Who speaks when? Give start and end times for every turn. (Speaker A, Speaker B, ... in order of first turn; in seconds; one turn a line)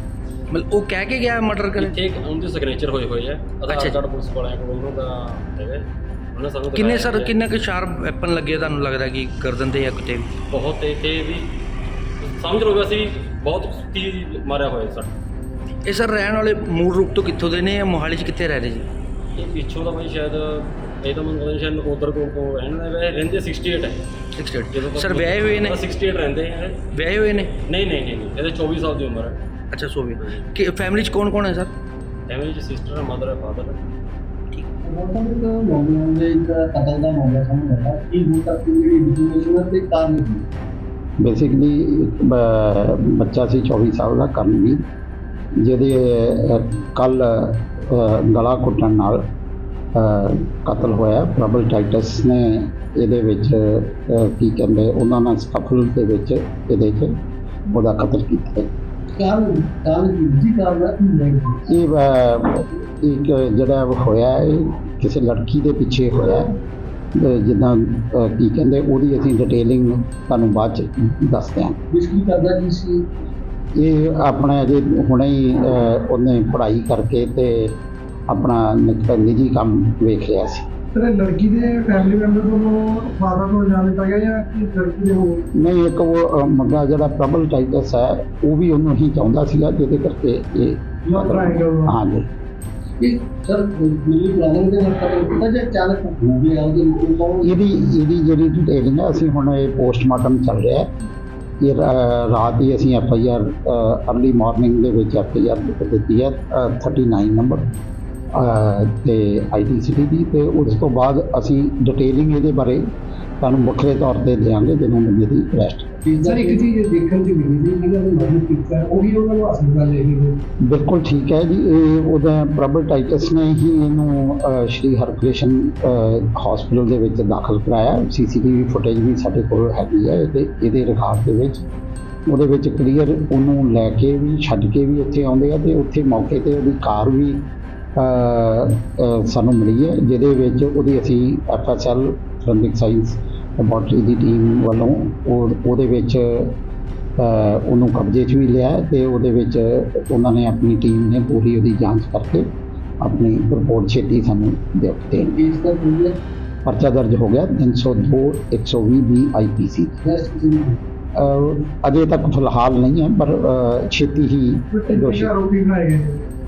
Speaker A: 0.5-2.0
Speaker B: 1.8-7.3
Speaker A: 3.7-4.0
Speaker A: 6.7-10.3
Speaker B: 10.5-11.6
Speaker B: 12.2-15.2
Speaker A: 15.8-18.9
Speaker B: 19.4-24.0
Speaker A: 24.4-25.8
Speaker B: 24.7-26.8
Speaker A: 26.9-27.5
Speaker B: 27.6-29.4
Speaker A: 29.7-31.7
Speaker B: 30.2-30.4
Speaker B: 32.3-33.8
Speaker C: 34.8-40.5
Speaker D: 41.2-44.8
Speaker D: 45.6-49.2
Speaker D: 49.9-57.1
Speaker D: 57.7-58.7
Speaker C: 59.1-61.6
Speaker D: 61.7-66.6
Speaker D: 67.2-71.8
Speaker C: 71.9-73.1
Speaker D: 73.8-77.8
Speaker D: 78.3-80.6
Speaker E: 80.9-85.4
Speaker D: 85.6-92.3
Speaker E: 91.1-91.9
Speaker C: 93.0-97.6
Speaker D: 97.4-101.0
Speaker D: 101.6-107.8
Speaker D: 108.3-112.8
Speaker D: 113.4-116.0
Speaker C: 116.0-116.7
Speaker E: 116.2-120.4
Speaker D: 120.7-131.6
Speaker D: 132.3-146.6
Speaker D: 147.2-152.5
Speaker D: 153.0-155.4
Speaker C: 155.3-156.2
Speaker D: 156.6-160.0
Speaker C: 160.0-160.8
Speaker D: 161.2-165.3
Speaker E: 164.7-166.2